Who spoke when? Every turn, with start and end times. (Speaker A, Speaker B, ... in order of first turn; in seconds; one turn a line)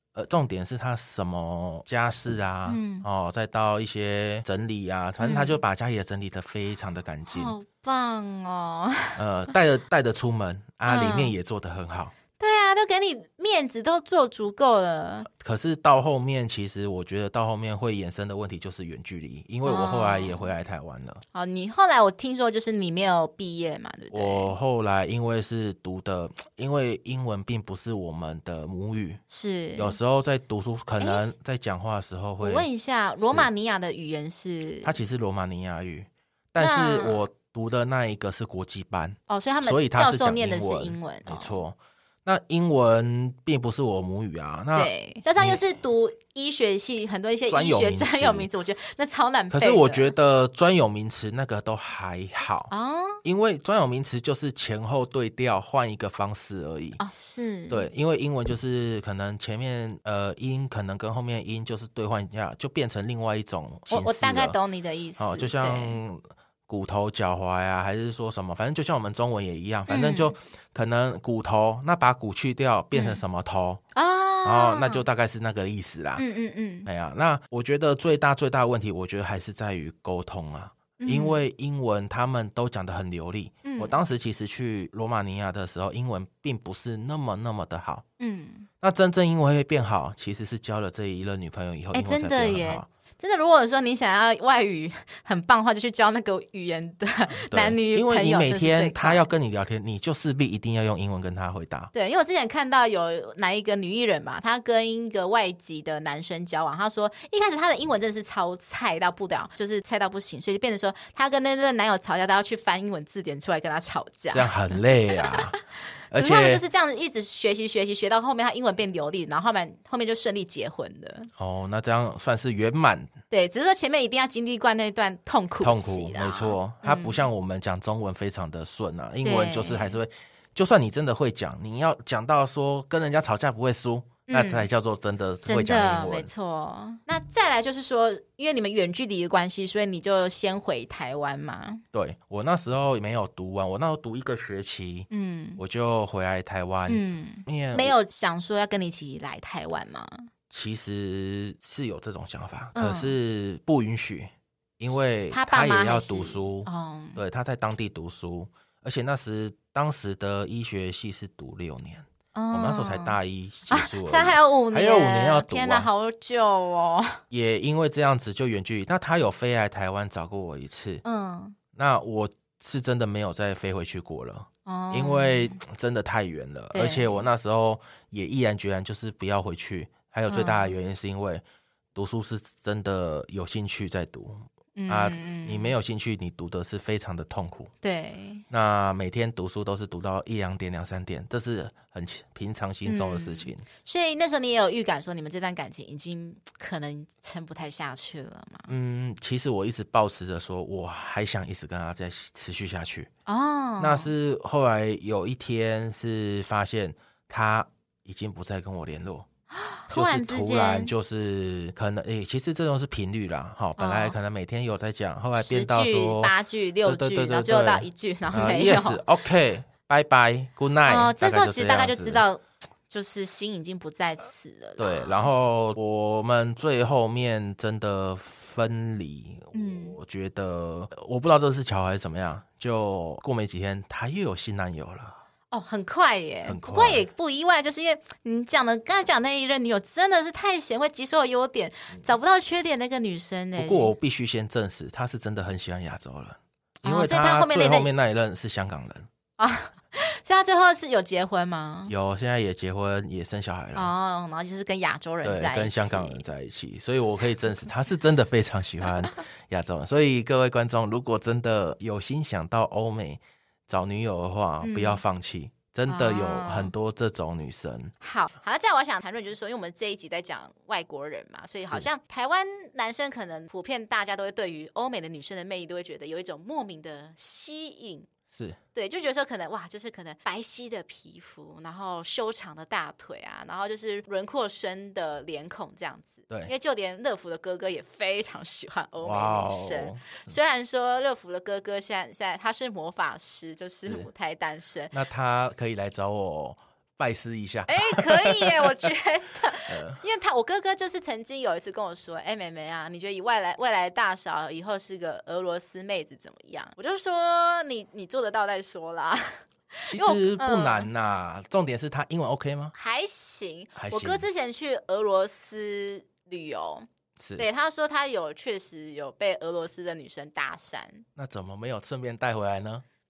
Speaker A: 0.1-7.5
Speaker B: 2.7-3.1
Speaker B: 5.2-5.6
Speaker B: 7.3-9.2
Speaker A: 9.2-12.1
Speaker B: 10.9-11.3
Speaker B: 12.4-15.3
Speaker A: 15.3-21.2
Speaker B: 19.6-20.5
Speaker B: 21.3-24.5
Speaker A: 24.1-29.2
Speaker B: 29.3-30.0
Speaker A: 29.8-32.7
Speaker B: 32.4-34.9
Speaker A: 33.2-33.5
Speaker A: 34.8-45.6
Speaker B: 36.6-37.2
Speaker B: 39.3-41.6
Speaker B: 44.8-50.1
Speaker A: 47.5-48.5
Speaker A: 49.5-52.7
Speaker B: 52.7-53.2
Speaker A: 53.2-57.0
Speaker B: 57.0-57.9
Speaker A: 57.7-64.6
Speaker B: 63.9-66.0
Speaker A: 65.2-73.8
Speaker B: 69.9-70.3
Speaker B: 72.9-73.2
Speaker B: 74.0-75.0
Speaker A: 74.4-76.2
Speaker B: 76.2-76.9
Speaker A: 76.8-88.0
Speaker B: 81.0-81.4
Speaker B: 83.6-84.0
Speaker B: 88.2-88.7
Speaker A: 88.8-92.9
Speaker B: 91.9-99.3
Speaker A: 97.3-101.9
Speaker B: 101.9-115.4
Speaker A: 114.3-115.6
Speaker A: 116.1-116.6
Speaker B: 116.1-121.3
Speaker A: 121.4-123.1
Speaker B: 123.3-127.2
Speaker A: 125.6-136.3
Speaker B: 129.2-130.0
Speaker B: 134.3-134.7
Speaker B: 135.4-141.8
Speaker A: 141.9-147.9
Speaker B: 145.1-145.6
Speaker B: 146.9-150.3
Speaker A: 150.5-165.9
Speaker B: 152.8-153.1
Speaker B: 155.3-157.2
Speaker B: 162.3-163.2
Speaker B: 163.7-167.2
Speaker A: 167.3-171.0
Speaker B: 171.0-171.6
Speaker A: 171.7-181.4
Speaker B: 174.7-175.6
Speaker B: 176.7-177.2
Speaker B: 180.3-180.8
Speaker A: 181.9-187.7
Speaker B: 184.8-185.7
Speaker B: 187.8-188.4
Speaker A: 188.5-193.6
Speaker B: 192.8-198.7
Speaker A: 198.7-203.1
Speaker B: 203.3-204.1
Speaker A: 203.8-209.3
Speaker B: 209.7-210.9
Speaker A: 209.9-216.3
Speaker B: 213.8-214.2
Speaker B: 215.3-219.0
Speaker A: 216.8-222.2
Speaker B: 220.9-225.3
Speaker A: 224.8-235.2
Speaker B: 229.5-230.0
Speaker B: 235.5-243.9
Speaker A: 236.4-237.1
Speaker A: 243.6-249.1
Speaker B: 246.8-247.9
Speaker B: 249.4-251.9
Speaker A: 251.9-253.9
Speaker B: 253.8-256.2
Speaker A: 255.2-267.9
Speaker B: 264.6-265.0
Speaker B: 265.9-266.7
Speaker B: 268.0-278.1
Speaker A: 278.3-278.6
Speaker B: 278.8-294.9
Speaker A: 289.0-290.3
Speaker A: 294.9-298.9
Speaker B: 297.7-310.9
Speaker A: 299.6-300.0
Speaker A: 309.9-312.7
Speaker B: 312.8-316.9
Speaker A: 313.8-314.3
Speaker A: 317.2-317.5
Speaker B: 317.4-321.1
Speaker A: 321.2-322.8